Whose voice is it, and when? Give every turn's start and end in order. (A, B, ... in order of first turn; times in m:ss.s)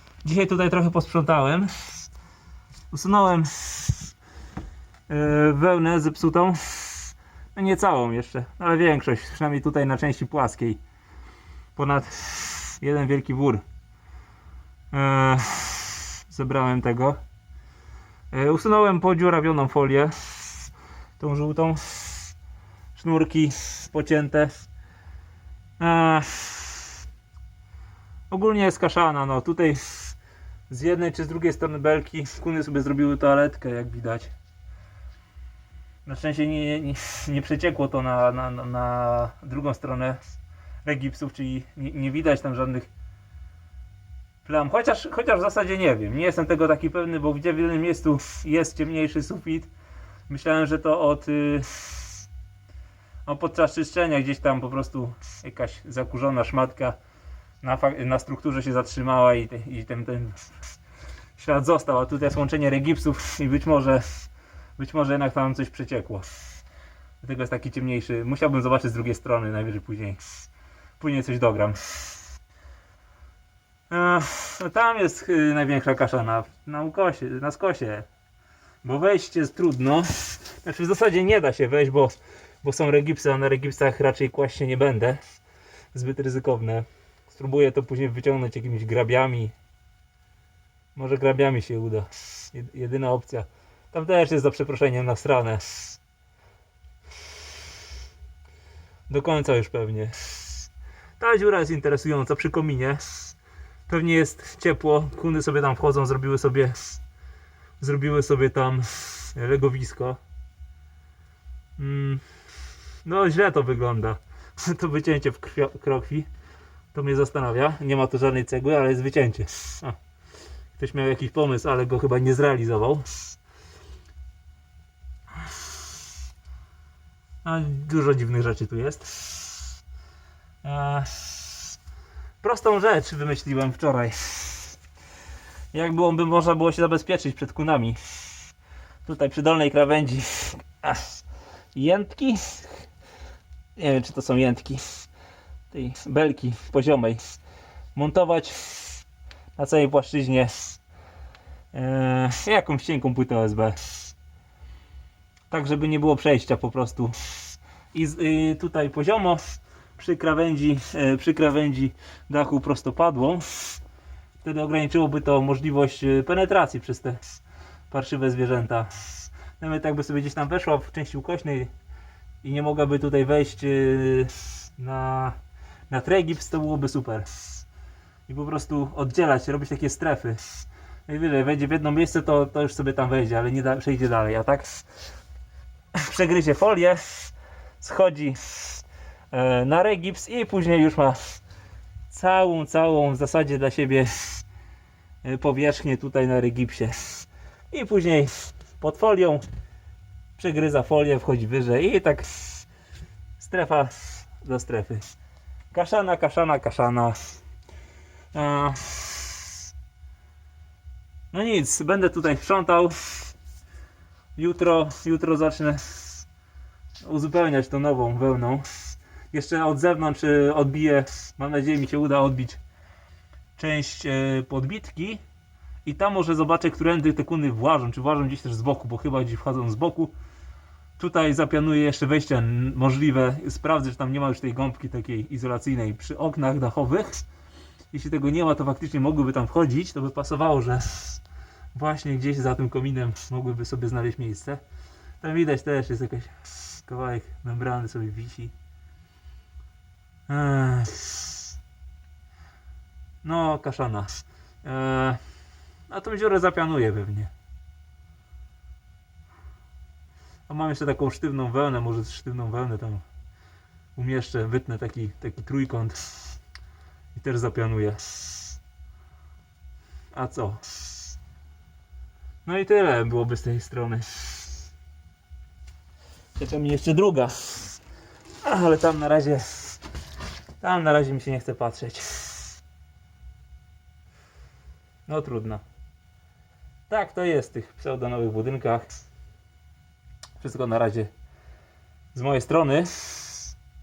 0:00.2-0:02.1 A
0:02.9-0:04.1 A
0:05.1-0:10.8 A
0:11.8-0:13.6 A
0:14.9-0:17.2 A
0:18.3-0:22.4 A
0:23.0-0:24.7 A
0:25.8-0:26.9 A
0:28.3-0:30.2 A
0:30.7-0:34.3 A
0:36.0-0:40.2 A
0:40.8-0:42.9 A
0:44.4-0:49.7 A
0:50.3-0:52.2 A
0:53.3-0:57.0 A
0:57.6-1:00.6 A
1:01.4-1:06.3 A
1:07.2-1:10.2 A
1:11.0-1:12.0 A
1:13.9-1:18.1 A
1:18.8-1:25.2 A
1:25.9-1:29.5 A
1:31.0-1:36.0 A
1:39.1-1:40.7 A
1:41.2-1:43.3 A
1:43.9-1:47.0 A
1:47.8-1:50.2 A
1:51.8-1:52.2 A
1:53.0-1:56.3 A
1:56.9-2:00.0 A
2:00.8-2:03.1 A
2:07.4-2:09.7 A
2:10.6-2:11.8 A
2:12.4-2:14.8 A
2:15.7-2:18.1 A
2:19.0-2:21.2 A
2:21.7-2:22.9 A
2:23.8-2:25.0 A
2:25.7-2:27.4 A
2:28.0-2:29.0 A
2:29.6-2:30.8 A
2:31.7-2:34.1 A
2:35.5-2:43.8 A
2:44.4-2:47.2 A
2:47.9-2:49.0 A
2:49.6-2:51.7 A
2:52.4-2:55.4 A
2:55.9-2:57.4 A
2:58.3-3:04.8 A
3:06.0-3:11.4 A
3:12.1-3:14.4 A
3:15.2-3:19.4 A
3:20.4-3:22.7 A
3:23.4-3:25.0 A
3:25.7-3:27.4 A
3:28.3-3:29.4 A
3:31.3-3:33.3 A
3:34.4-3:36.2 A
3:37.0-3:42.6 A
3:43.6-3:45.2 A
3:45.8-3:50.1 A
3:51.0-3:57.3 A
3:57.9-4:01.2 A
4:01.7-4:04.6 A
4:05.2-4:08.5 A
4:10.3-4:11.3 A
4:13.2-4:15.2 A
4:15.9-4:17.3 A
4:20.5-4:23.0 A
4:24.0-4:26.1 A
4:27.1-4:28.5 A
4:30.1-4:30.6 A
4:32.4-4:34.5 A
4:36.4-4:37.8 A
4:38.4-4:39.8 A
4:40.6-4:42.4 A
4:45.1-4:45.6 A
4:46.9-4:48.9 A
4:50.4-4:51.1 A
4:52.1-4:53.5 A